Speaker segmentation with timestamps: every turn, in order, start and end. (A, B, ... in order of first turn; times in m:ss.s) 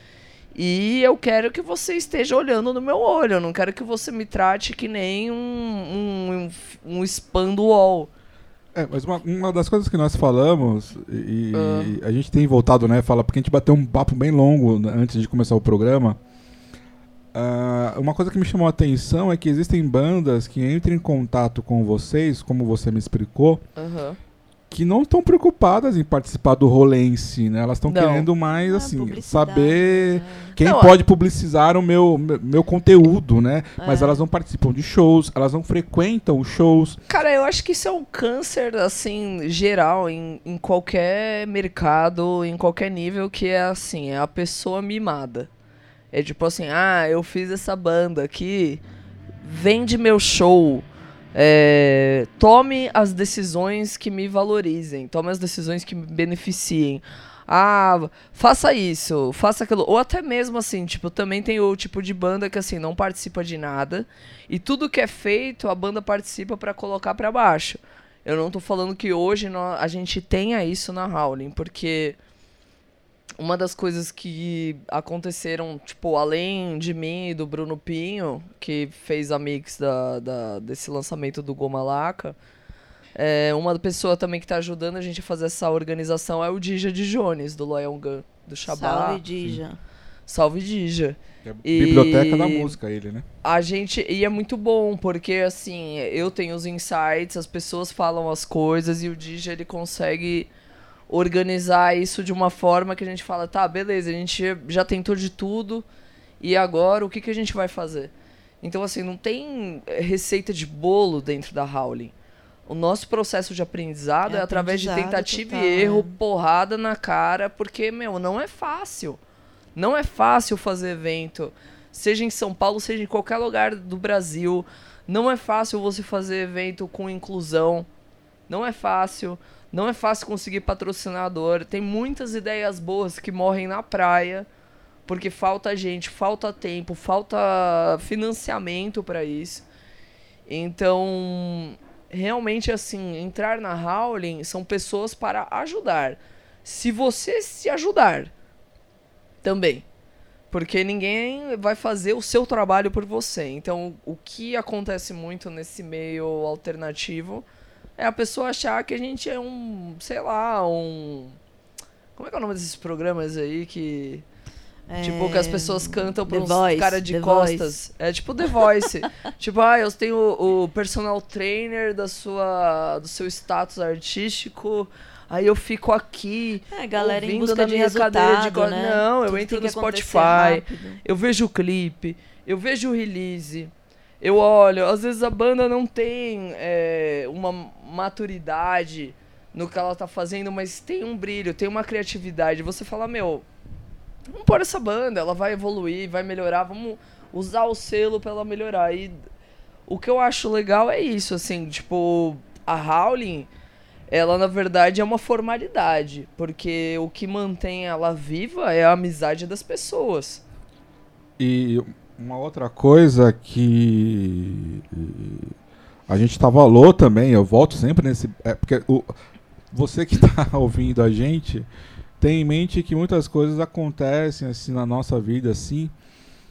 0:00.5-0:08.1 A
0:08.7-0:16.2 B
0:11.5-0:12.0 A
0:17.3-0:23.6 B
0:23.8-0:24.2 A
0:24.7-0:37.0 B
0:27.9-0:28.3 A
0:28.5-0:30.6 C
0:30.6-0:31.0 A
0:33.8-0:34.2 C
0:37.1-0:45.5 A
0:46.1-0:48.8 A
0:49.4-1:12.2 A
1:13.4-1:22.4 A
1:23.2-1:29.2 A
1:28.7-1:29.8 C
1:30.3-1:32.8 A
1:31.4-1:33.2 B
1:33.4-1:40.5 A
1:41.1-1:45.9 A
1:46.4-1:52.1 A
1:52.7-1:59.2 A
1:54.3-1:56.2 C
1:59.8-2:07.9 A
2:08.5-2:14.5 A
2:15.1-2:19.6 A
2:20.5-2:28.3 A
2:29.4-2:29.8 A
2:30.5-2:37.4 A
2:38.0-2:41.4 A
2:42.2-2:44.2 A
2:44.9-2:47.7 C
2:45.0-3:13.5 A
2:56.7-3:01.0 C
3:14.3-3:19.2 A
3:19.9-3:23.5 A
3:24.1-3:30.4 A
3:31.4-3:35.5 B
3:36.1-3:39.1 B
3:39.7-3:41.7 B
3:42.2-3:45.9 B